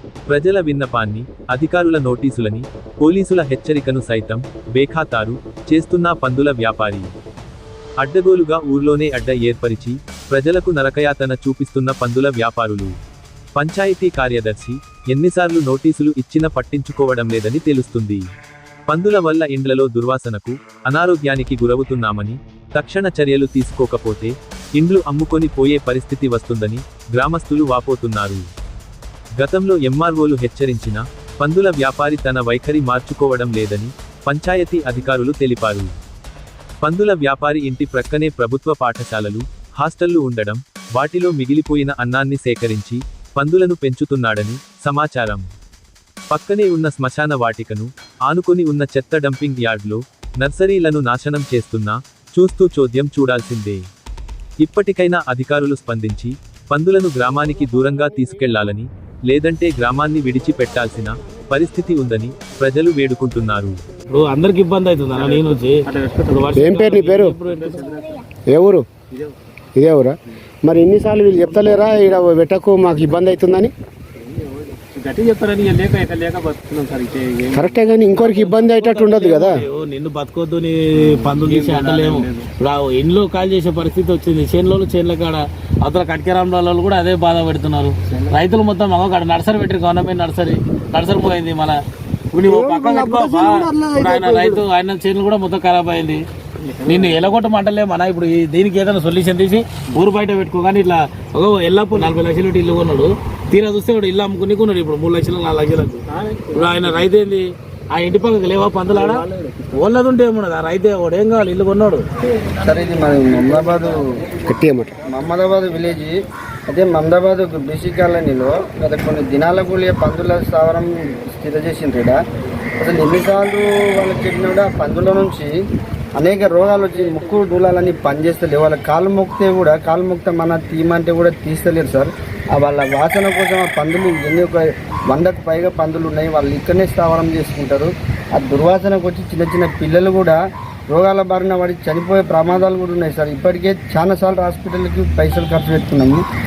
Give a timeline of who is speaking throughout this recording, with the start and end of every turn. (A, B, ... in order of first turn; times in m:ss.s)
0:00.3-0:07.1 A
0:08.0-0:12.9 A
0:13.6-0:18.2 A
0:18.9-0:28.4 A
0:29.4-0:35.9 A
0:36.8-0:45.5 A
0:46.3-0:53.8 A
0:54.6-1:03.8 A
1:04.1-1:08.2 B
1:05.9-1:06.4 C
1:06.5-1:07.4 D
1:07.5-1:08.0 C
1:08.5-1:08.9 D
1:09.8-1:13.7 D
1:14.3-1:18.4 C
1:17.5-1:19.6 D
1:18.5-1:31.8 B
1:21.2-1:22.5 C
1:32.3-1:36.2 B
1:32.4-1:34.6 D
1:36.6-1:37.2 C
1:36.8-1:52.0 B
1:46.1-1:47.0 C
1:48.9-1:49.8 C
1:52.6-1:53.9 E
1:52.8-1:53.9 A
1:54.5-1:55.0 D
1:55.1-1:56.2 E
1:56.7-2:02.1 E
1:57.2-1:57.9 A
2:02.8-2:05.5 E
2:04.2-2:04.5 A
2:06.2-2:14.5 E
2:06.7-2:08.4 A
2:09.8-2:11.1 A
2:15.1-2:17.9 E
2:15.3-2:16.1 A
2:16.8-2:17.6 A
2:18.4-2:20.4 E
2:18.8-2:20.2 A
2:20.9-2:26.2 E
2:21.3-2:25.4 A